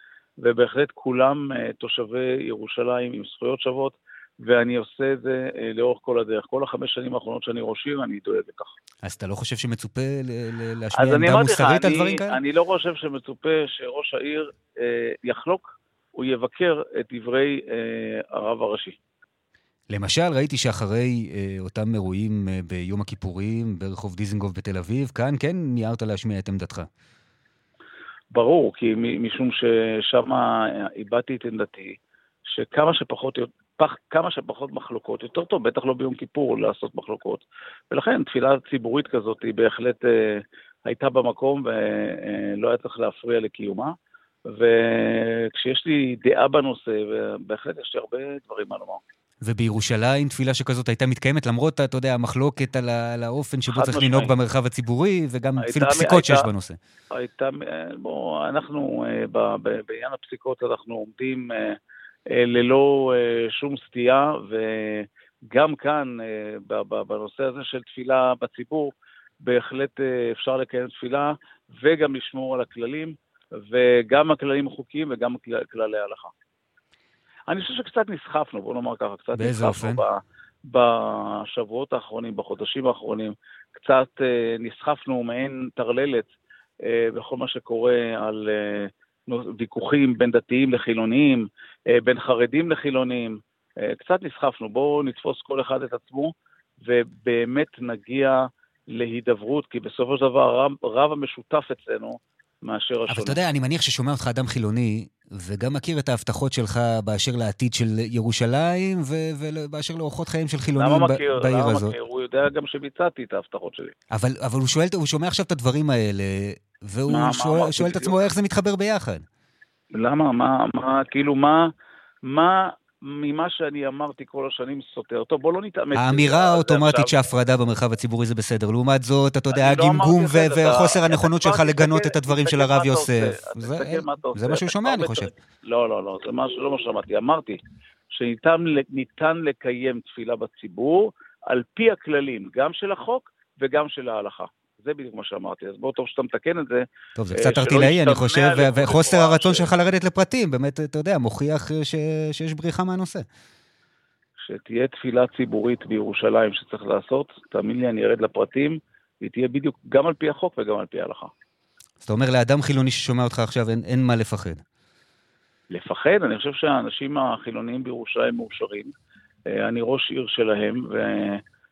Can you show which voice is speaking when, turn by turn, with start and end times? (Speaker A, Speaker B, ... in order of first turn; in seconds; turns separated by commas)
Speaker A: 0.4-8.7, Speaker B: 9.0-12.4, Speaker A: 10.9-18.9, Speaker B: 19.9-26.9, Speaker A: 28.3-31.9, Speaker A: 32.5-43.9, Speaker A: 44.5-49.0, Speaker B: 49.4-56.8, Speaker A: 53.7-54.3, Speaker A: 55.6-56.5, Speaker A: 57.1-61.8, Speaker A: 62.3-76.3, Speaker A: 77.5-86.3, Speaker B: 79.3-80.0, Speaker A: 86.8-103.4, Speaker B: 103.1-111.9, Speaker A: 110.8-113.9, Speaker B: 114.1-119.2, Speaker A: 117.1-118.2, Speaker A: 119.9-121.7, Speaker A: 122.2-127.1, Speaker B: 125.9-135.3, Speaker A: 129.5-137.6, Speaker A: 138.1-146.8, Speaker B: 147.2-153.2, Speaker A: 147.3-149.7, Speaker A: 154.4-161.3, Speaker B: 162.0-164.6, Speaker A: 165.7-168.9, Speaker A: 169.5-171.4